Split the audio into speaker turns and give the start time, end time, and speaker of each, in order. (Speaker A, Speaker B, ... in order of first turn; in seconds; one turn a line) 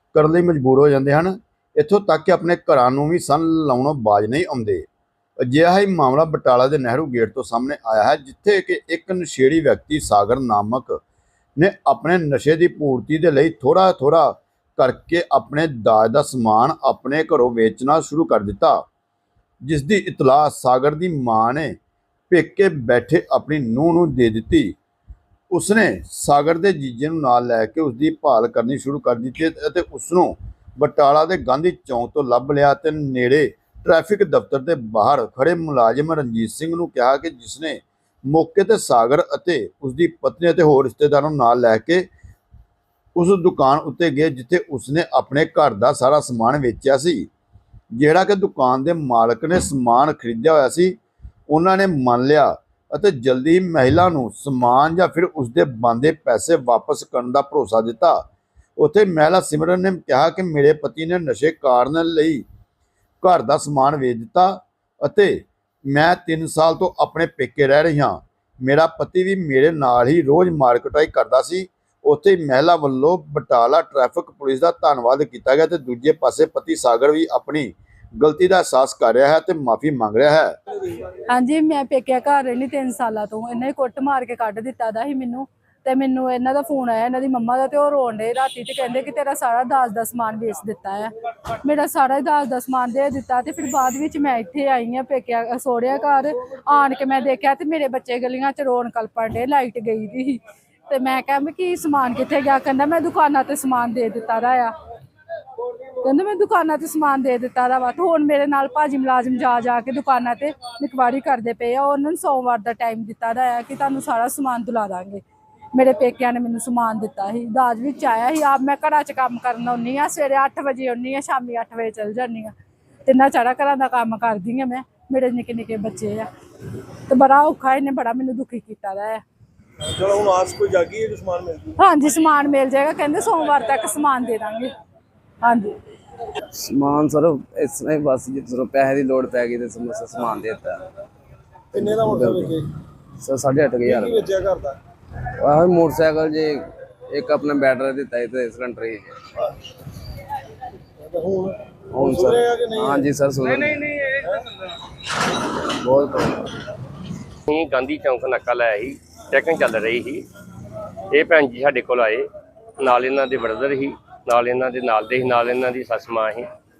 Speaker A: 0.1-4.9
Speaker A: 5.4-11.0
Speaker A: 11.6-18.9
Speaker A: 19.6-21.8
Speaker A: 22.3-24.8
Speaker A: 25.5-42.1
Speaker A: 43.2-47.3
Speaker A: 47.9-51.0
Speaker A: 51.5-58.2
Speaker A: 58.8-62.5
Speaker A: 63.2-80.5
Speaker B: 81.3-104.7
Speaker B: 106.0-115.2
Speaker B: 115.7-122.5
Speaker B: 123.0-126.3
Speaker B: 127.1-129.2
Speaker C: 129.8-131.8
Speaker B: 131.8-134.7
Speaker B: 135.4-135.8
Speaker D: 136.5-140.9
Speaker C: 141.7-142.7
Speaker D: 142.0-142.5
Speaker D: 143.2-144.3
Speaker C: 143.8-144.8
Speaker D: 145.4-149.2
Speaker C: 151.0-153.1
Speaker D: 151.9-153.9
Speaker D: 155.8-156.5
Speaker E: 157.5-160.2
Speaker E: 161.1-162.3
Speaker E: 162.8-166.5